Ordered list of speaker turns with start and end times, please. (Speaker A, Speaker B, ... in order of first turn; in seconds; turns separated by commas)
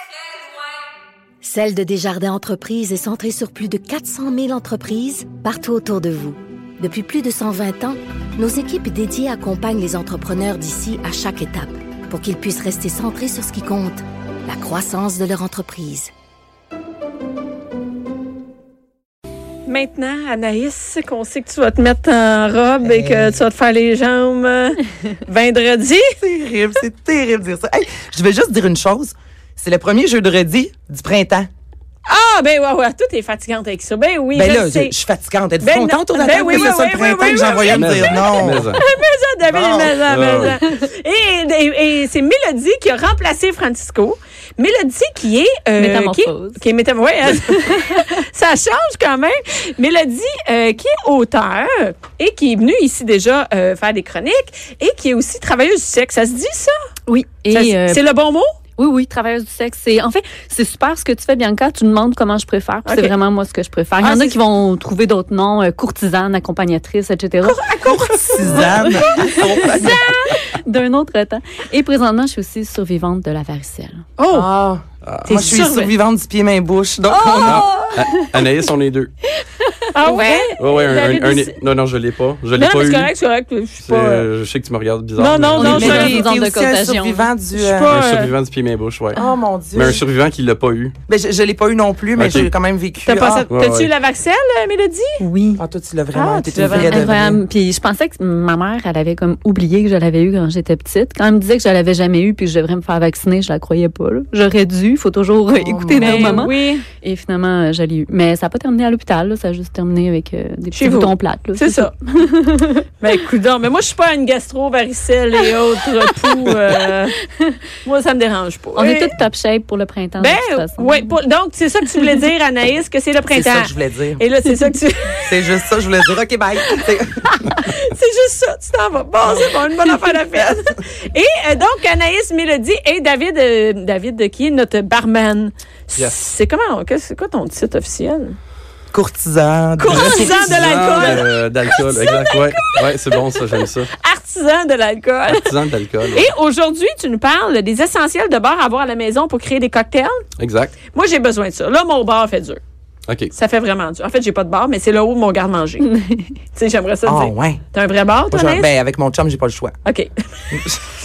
Speaker A: 1.4-16.1, Speaker B: 19.7-26.1, Speaker C: 22.8-23.4, Speaker C: 26.2-31.5, Speaker B: 32.1-35.0, Speaker C: 34.3-38.8, Speaker B: 35.6-56.8, Speaker D: 37.7-38.8, Speaker C: 39.5-40.2, Speaker D: 40.1-40.6, Speaker E: 45.8-46.6, Speaker E: 57.1-58.0, Speaker B: 57.5-58.5, Speaker E: 58.8-67.7, Speaker B: 62.9-63.2, Speaker B: 64.0-64.4, Speaker C: 67.6-70.1, Speaker B: 67.6-68.7, Speaker E: 69.1-74.0, Speaker B: 69.4-70.3, Speaker B: 74.2-74.5, Speaker C: 74.3-77.7, Speaker D: 75.0-75.5, Speaker B: 75.3-75.9, Speaker E: 77.1-78.4, Speaker D: 77.4-79.1, Speaker B: 79.9-81.5, Speaker C: 80.0-80.5, Speaker D: 80.6-83.1, Speaker B: 82.6-84.3, Speaker D: 83.8-86.2, Speaker B: 85.2-86.2, Speaker E: 85.5-87.3, Speaker C: 85.7-87.9, Speaker B: 87.5-88.3, Speaker D: 87.9-89.2, Speaker C: 89.2-90.0, Speaker D: 89.7-91.0, Speaker C: 91.1-93.5, Speaker D: 92.2-92.5, Speaker B: 93.0-95.2, Speaker D: 93.5-93.9, Speaker E: 95.2-95.6, Speaker C: 95.6-97.4, Speaker B: 96.1-97.1, Speaker E: 96.7-112.8, Speaker C: 105.6-106.4, Speaker B: 105.9-106.8, Speaker B: 110.8-111.9, Speaker B: 113.0-117.2, Speaker B: 117.8-119.1, Speaker E: 118.8-121.1, Speaker B: 120.2-125.4, Speaker C: 123.3-124.2, Speaker C: 125.3-127.6, Speaker B: 127.5-138.4, Speaker C: 130.3-130.6, Speaker C: 138.9-141.2, Speaker B: 139.8-142.8, Speaker D: 139.9-143.9, Speaker B: 143.5-145.5, Speaker D: 145.3-146.3, Speaker B: 146.1-150.2, Speaker D: 150.4-150.8, Speaker B: 150.9-152.6, Speaker D: 153.1-153.3, Speaker B: 153.3-155.9, Speaker B: 156.5-158.7, Speaker C: 157.1-157.6, Speaker C: 158.3-159.8, Speaker B: 159.8-160.6, Speaker C: 160.5-160.8